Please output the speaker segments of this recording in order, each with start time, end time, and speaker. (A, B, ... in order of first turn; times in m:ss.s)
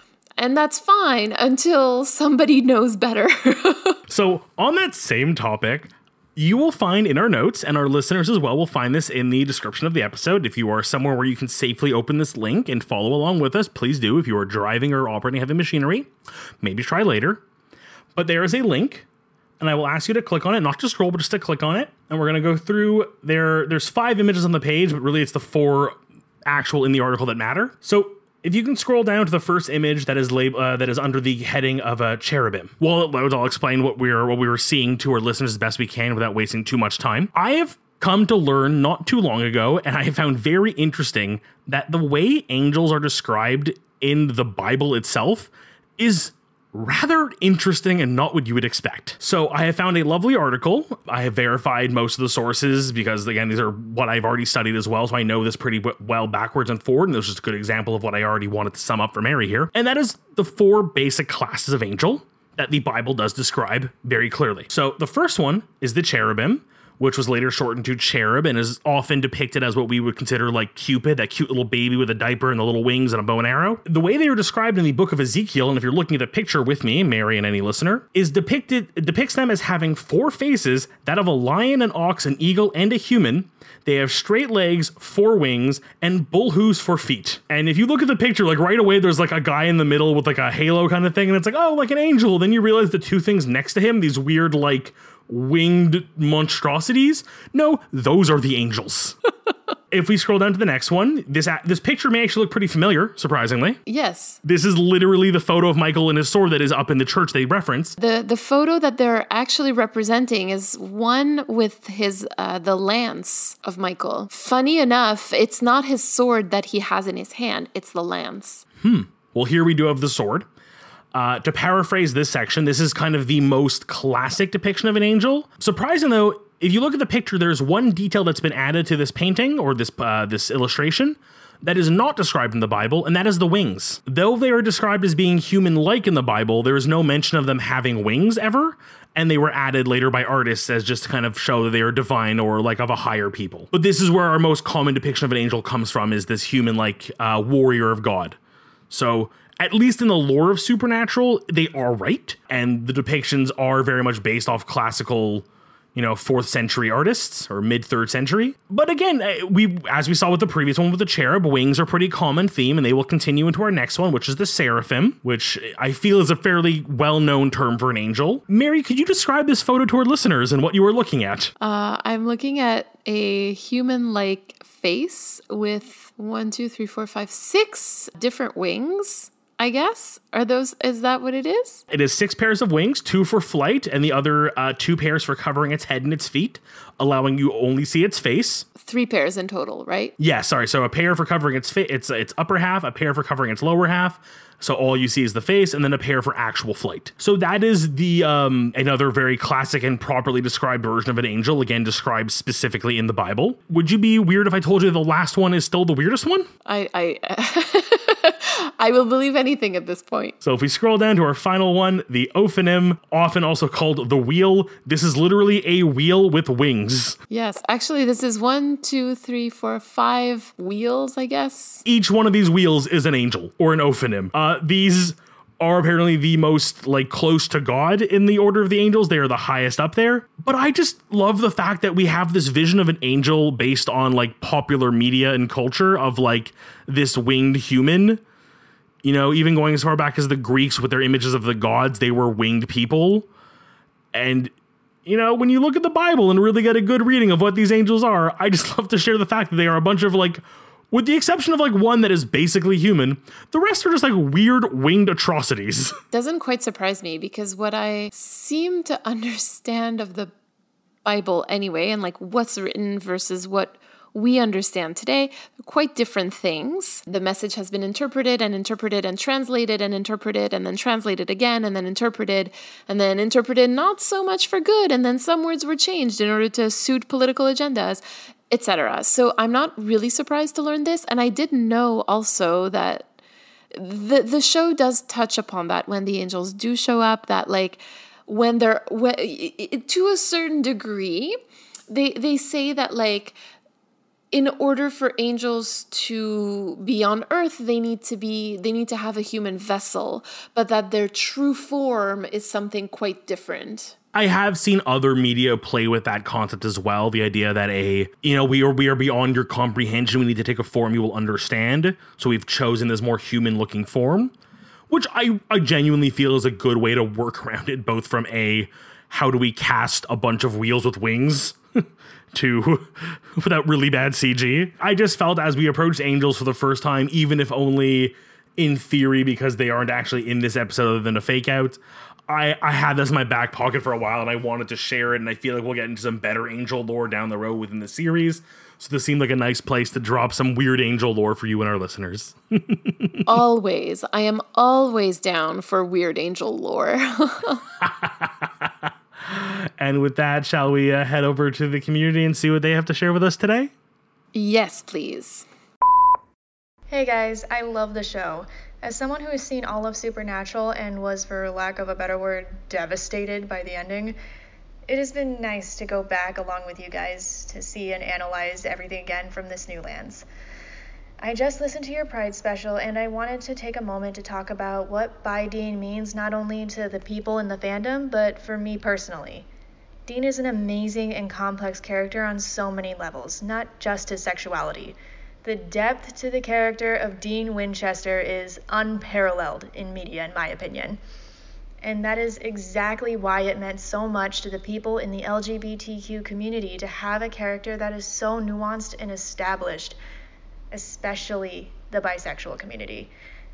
0:00.4-0:04.0 A
0:04.1-0:17.4 B
0:18.2-0:19.1 B
0:19.6-1:39.2 B
1:39.9-1:43.8 B
1:43.9-1:44.4 A
1:44.4-1:48.0 B
1:48.0-1:58.6 A
1:58.8-2:00.5 B
2:01.1-2:28.4 B
2:28.9-2:51.5 B
2:51.6-3:01.8 A
3:01.9-3:08.7 B
3:08.8-3:10.2 A
3:10.2-3:26.5 B
3:26.6-3:30.4 A
3:30.4-3:37.2 B
3:37.3-3:41.8 A
3:41.8-3:58.2 B
3:59.0-4:03.3 B
4:04.1-4:04.5 B
4:05.1-4:16.0 B
4:16.1-4:20.3 A
4:21.0-4:43.1 A
4:43.7-4:51.4 A
4:51.9-4:53.4 A
4:54.3-5:04.0 A
5:04.1-5:14.3 B
5:14.9-5:43.2 B
5:43.3-5:47.6 A
5:47.8-5:53.7 B
5:54.3-5:55.5 A
5:56.9-6:04.2 C
6:04.9-6:10.3 C
6:11.2-6:19.5 C
6:20.1-6:31.0 C
6:31.8-6:40.0 C
6:40.7-6:43.1 C